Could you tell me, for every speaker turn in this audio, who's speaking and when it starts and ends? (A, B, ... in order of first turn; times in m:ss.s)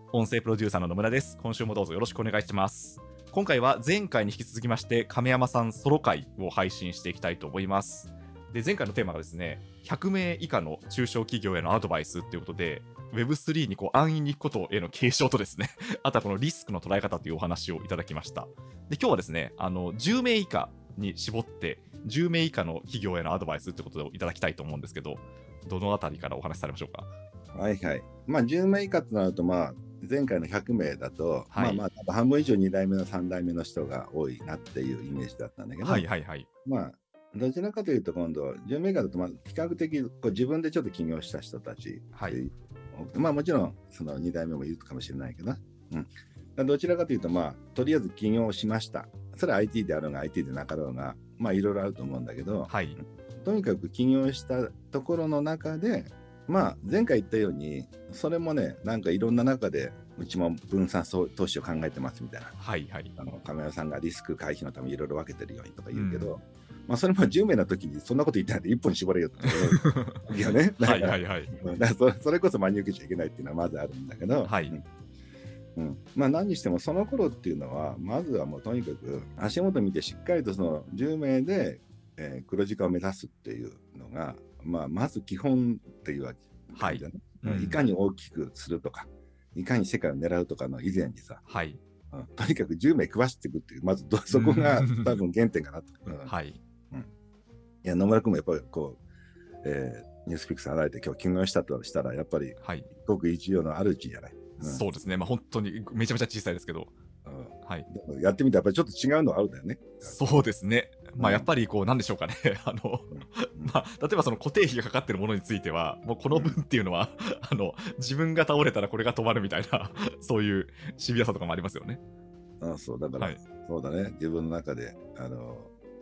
0:00.1-0:27.1 A
0:27.5-0:36.0 B
0:31.5-0:31.8 A
0:35.8-0:36.5 A
0:36.6-1:02.6 B
0:52.7-0:53.0 A
1:02.6-1:03.1 A
1:03.2-1:14.8 B
1:05.9-1:06.4 A
1:09.7-1:10.2 A
1:10.8-1:11.6 A
1:14.4-1:14.8 A
1:15.8-1:31.4 B
1:26.8-1:27.8 A
1:31.5-1:31.8 A
1:32.1-1:36.3 B
1:34.3-1:35.2 A
1:36.3-1:36.6 A
1:37.8-1:39.0 B
1:39.6-1:44.8 B
1:42.6-1:42.9 A
1:44.6-1:46.9 A
1:47.2-1:50.3 B
1:50.0-2:02.0 A
1:51.2-1:51.5 B
1:53.1-1:53.8 B
1:56.3-1:56.6 B
2:02.6-2:05.7 B